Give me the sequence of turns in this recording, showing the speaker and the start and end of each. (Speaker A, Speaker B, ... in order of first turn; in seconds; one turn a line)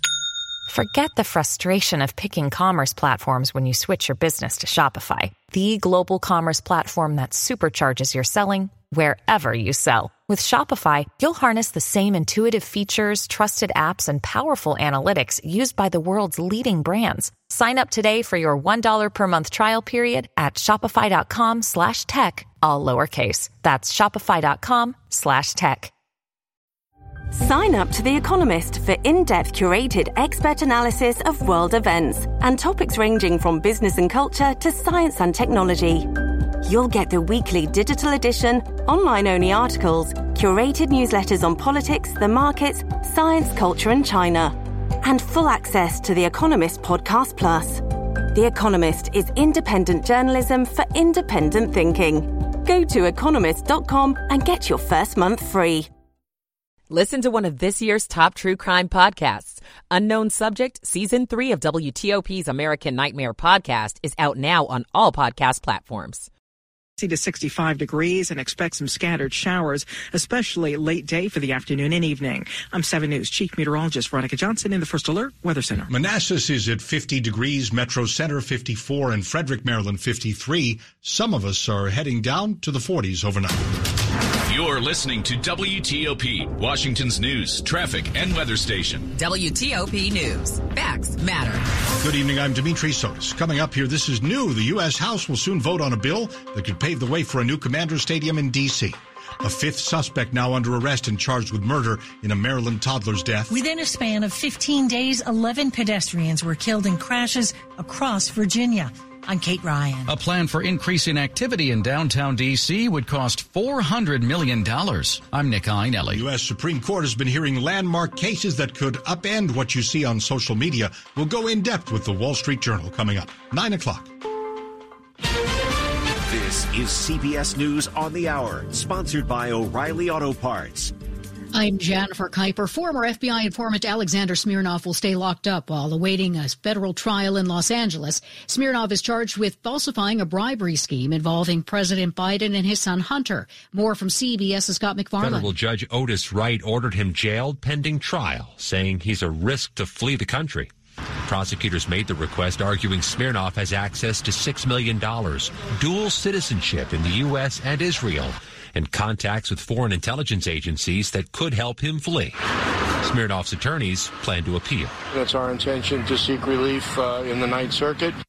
Speaker A: 0.7-25.9
Speaker B: 27.3-55.9
Speaker C: 56.9-66.3
Speaker D: 67.0-75.9
Speaker E: 75.9-83.6
Speaker F: 84.5-89.1
Speaker C: 89.1-91.7
Speaker E: 92.0-103.5
Speaker G: 103.5-110.1
Speaker H: 110.1-116.2
Speaker E: 116.1-124.1
Speaker I: 126.3-130.9
Speaker J: 131.5-145.5
Speaker K: 145.2-150.7
Speaker K: 151.2-162.4
Speaker K: 163.0-164.9
Speaker L: 165.1-168.2